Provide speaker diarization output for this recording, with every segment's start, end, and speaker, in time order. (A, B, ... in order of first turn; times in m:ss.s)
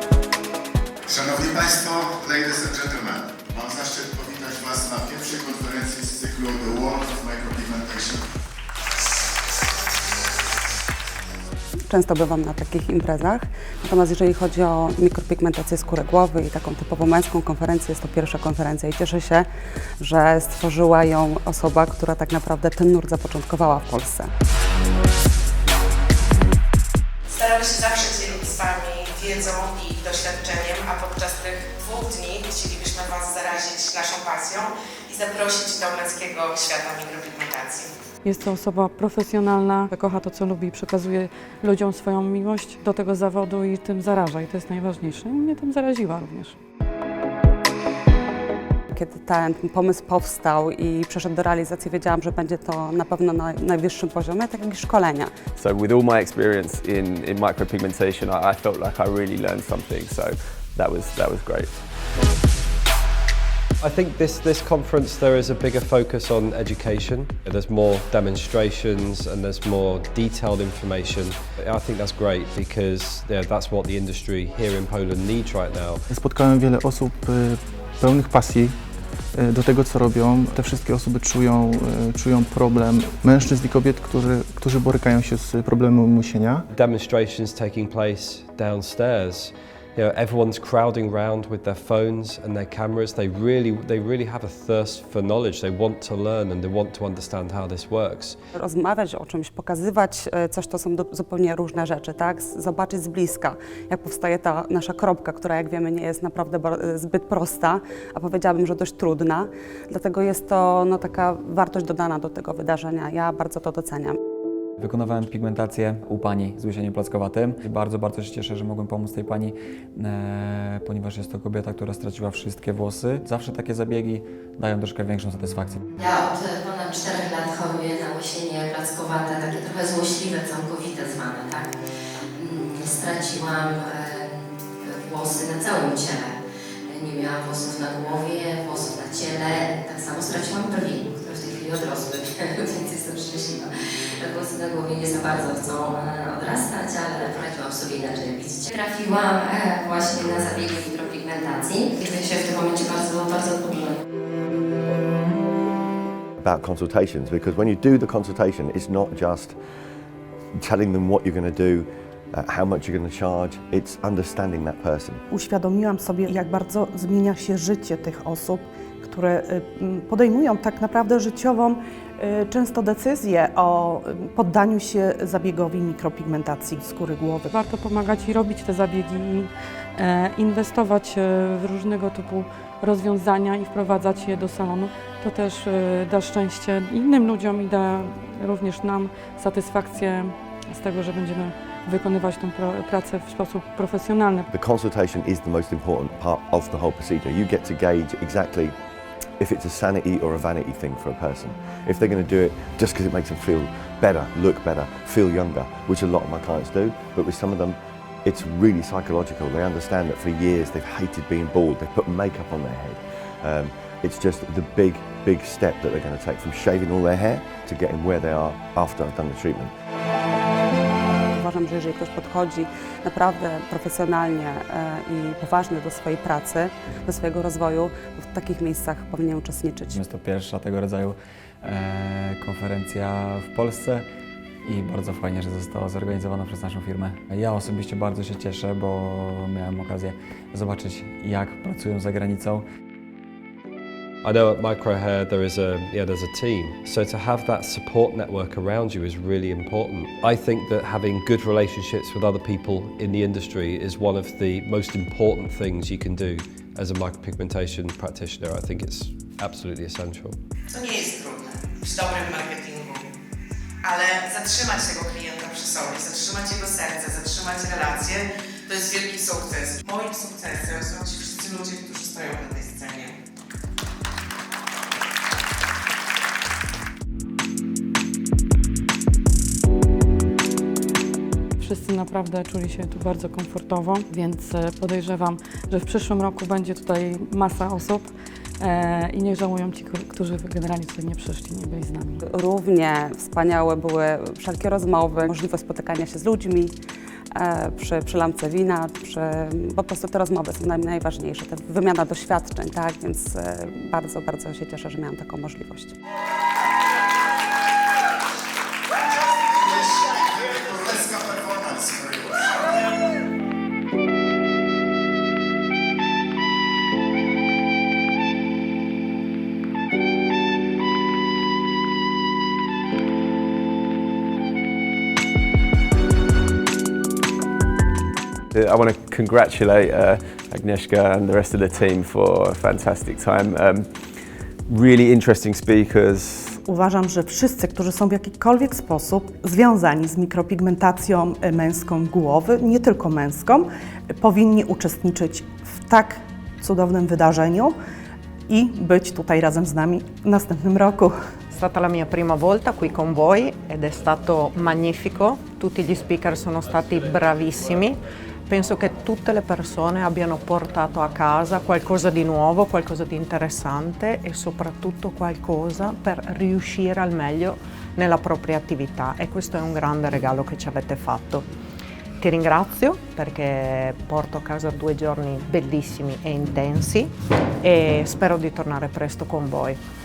0:01.1-0:08.2 A
0:11.9-0:19.5 B
0:20.0-0:24.3 B
0:27.4-0:37.9 C
0:38.2-0:46.6 D
0:48.9-0:55.5 B
0:55.5-1:01.8 E
1:03.8-1:16.0 F
1:16.1-1:26.7 G
1:26.7-1:38.4 F
1:38.6-1:54.2 B
1:54.8-2:05.9 H
2:06.0-2:11.7 I
2:12.4-2:34.0 I
2:36.4-2:39.6 J
2:40.6-2:45.2 J
2:45.3-2:57.5 K
2:57.5-3:14.5 D
3:14.5-3:18.8 J
3:19.4-3:39.7 J
3:41.3-3:50.0 B
3:49.9-3:54.0 H
3:54.6-4:02.6 H
4:04.2-4:20.4 F
4:20.8-4:23.0 C
4:23.9-4:33.1 C
4:41.6-4:52.2 D
4:52.3-4:56.7 B
4:57.4-5:05.9 B
5:09.4-5:12.6 A
5:28.5-5:33.9 E
5:34.7-5:36.6 E
5:36.6-5:47.8 K
5:48.5-5:51.1 K
5:51.5-6:11.5 L
6:12.2-6:17.1 L
6:17.6-6:19.8 L